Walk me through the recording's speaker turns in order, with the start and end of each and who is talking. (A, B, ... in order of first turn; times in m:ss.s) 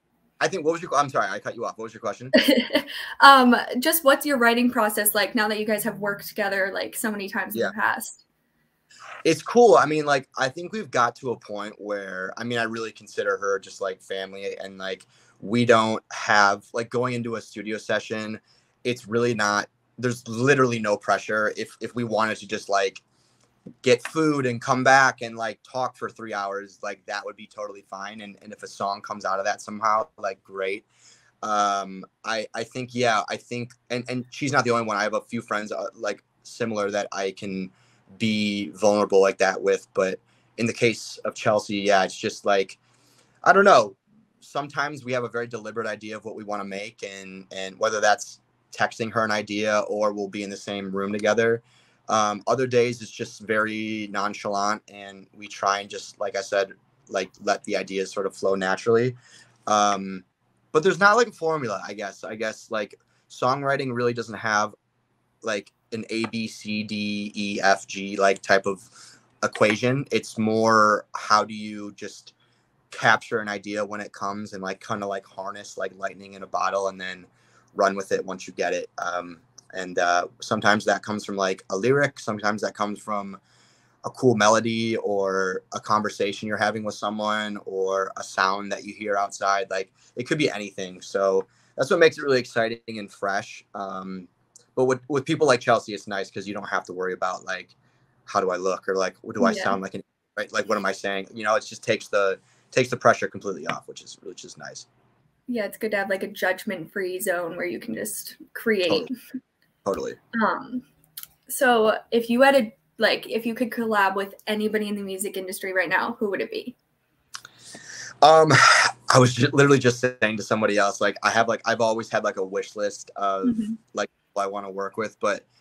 0:00.4-0:02.3 A
0:02.3-0:08.2 B
0:09.2-0:23.0 A
0:23.8-0:30.8 A
0:31.4-0:42.8 A
0:43.4-0:59.2 A
0:59.7-1:04.7 A
1:05.4-1:08.9 A
1:09.4-1:12.3 A
1:12.9-1:23.4 A
1:24.0-1:37.7 A
1:38.3-1:44.8 A
1:39.4-1:39.8 B
1:45.5-1:49.1 B
1:49.8-1:50.2 A
1:50.3-1:50.8 B
1:51.5-1:56.8 B
1:58.2-2:05.4 A
2:03.4-2:03.8 B